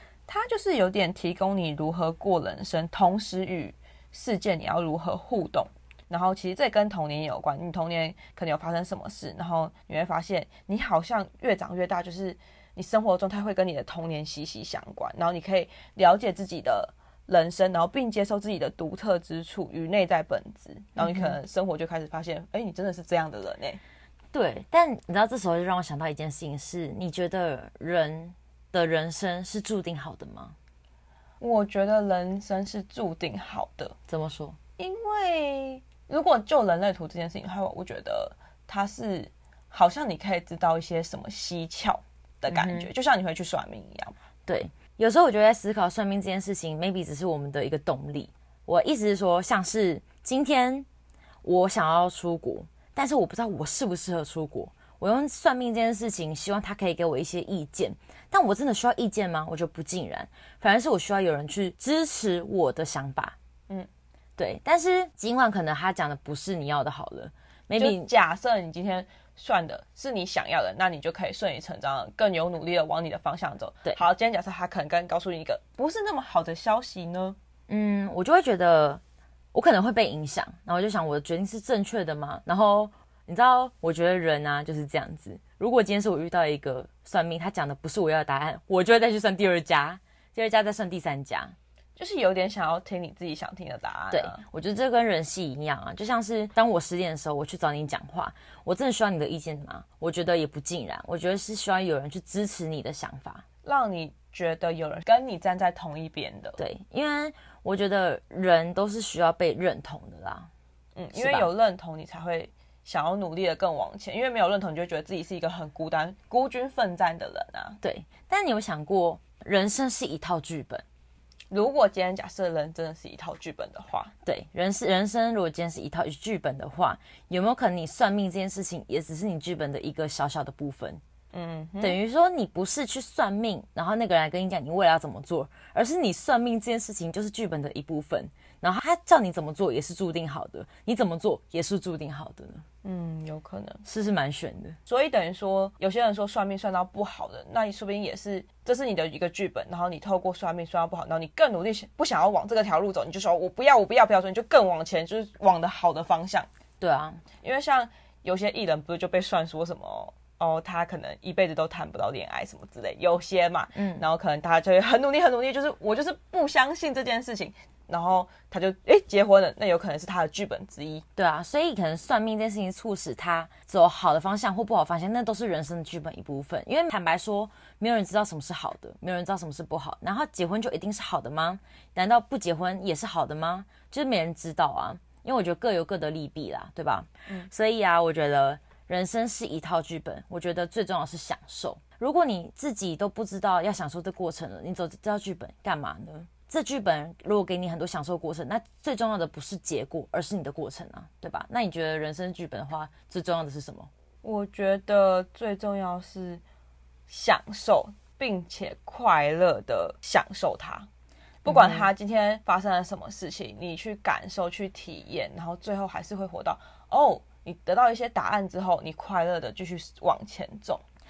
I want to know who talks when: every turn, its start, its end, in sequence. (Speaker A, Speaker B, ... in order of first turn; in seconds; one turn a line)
Speaker A: 0.3-23.8
Speaker B: 21.0-21.4
Speaker B: 24.3-30.6
Speaker A: 31.4-34.0
Speaker B: 34.1-34.6
Speaker A: 34.8-44.1
Speaker B: 42.5-42.9
Speaker B: 44.5-50.9
Speaker B: 51.4-63.4
Speaker B: 64.4-68.1
Speaker A: 67.8-77.4
Speaker B: 77.7-79.0
Speaker B: 79.5-91.6
Speaker A: 92.0-94.4
Speaker B: 94.1-103.5
Speaker A: 103.6-106.6
Speaker B: 106.6-110.5
Speaker A: 111.0-117.8
Speaker B: 111.1-111.5
Speaker B: 117.8-120.8
Speaker A: 121.5-124.1
Speaker B: 124.2-131.0
Speaker A: 131.3-132.0
Speaker B: 131.8-142.6
Speaker A: 142.8-143.8
Speaker B: 143.8-144.8
Speaker A: 144.9-156.5
Speaker B: 156.8-157.2
Speaker A: 157.4-171.0
Speaker B: 163.7-164.1
Speaker B: 171.2-203.9
Speaker A: 204.2-206.4
Speaker A: 207.1-210.9
Speaker B: 211.4-211.9
Speaker A: 211.4-220.8